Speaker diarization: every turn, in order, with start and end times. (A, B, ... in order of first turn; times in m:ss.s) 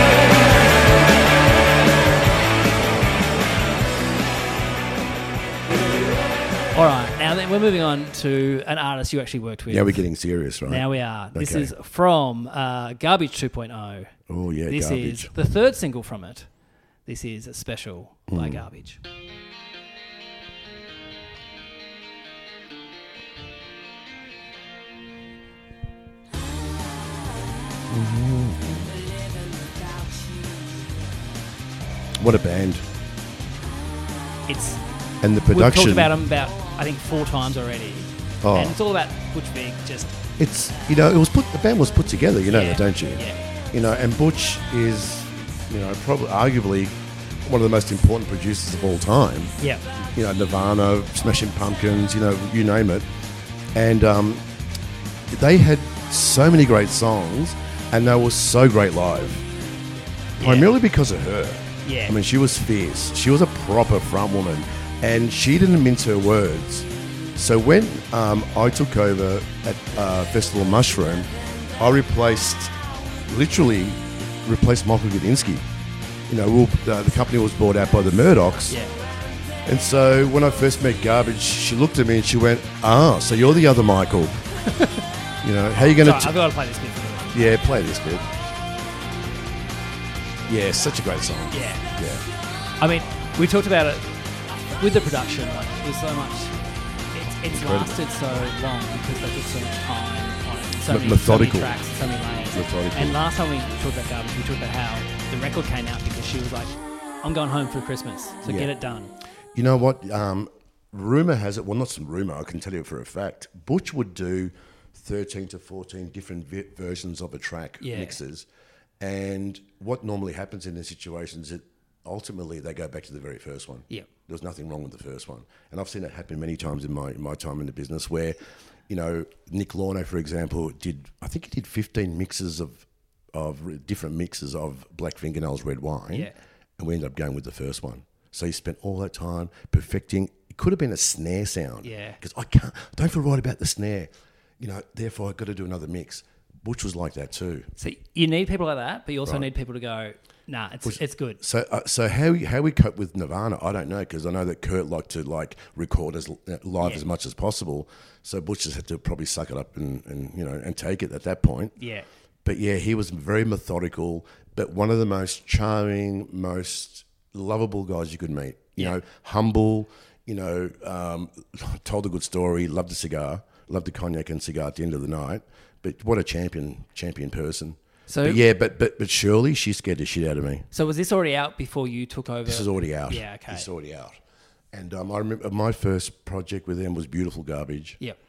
0:06.7-0:16.5 A
0:09.7-0:11.7 B
0:14.3-0:15.3 B
0:17.0-0:19.0 A
0:18.3-0:18.6 B
0:27.9-0:29.0 B
0:32.2-0:32.8 B
0:34.4-0:34.8 A
0:35.2-0:36.2 B
0:35.4-0:40.2 A
0:38.4-0:38.8 B
0:40.4-0:49.5 B
0:42.5-0:43.4 A
0:49.6-0:49.9 A
0:50.1-0:53.1 B
0:53.7-0:54.4 B
0:55.3-0:59.5 B
1:00.4-1:00.7 A
1:00.4-1:12.8 B
1:01.8-1:02.2 A
1:13.3-1:15.6 B
1:16.3-1:18.8 B
1:18.7-1:19.0 A
1:19.6-1:24.4 B
1:24.7-1:25.0 A
1:25.4-1:26.3 B
1:25.8-1:27.4 A
1:27.3-1:28.3 B
1:30.5-1:32.2 B
1:31.5-1:31.9 A
1:32.8-1:36.6 A
1:37.1-1:49.1 A
1:37.5-1:38.0 B
1:40.9-1:41.8 B
1:42.5-1:43.2 B
1:48.4-1:48.7 B
1:49.6-1:58.5 B
1:57.8-1:58.2 A
1:59.0-2:08.4 B
2:08.9-2:27.7 B
2:16.1-2:16.4 A
2:21.8-2:22.2 A
2:27.8-2:31.4 A
2:30.8-2:41.8 B
2:36.8-2:37.0 A
2:41.8-2:42.1 A
2:42.4-3:00.7 B
2:58.1-2:58.4 A
3:00.7-3:03.7 A
3:02.5-3:04.2 B
3:04.7-3:08.0 B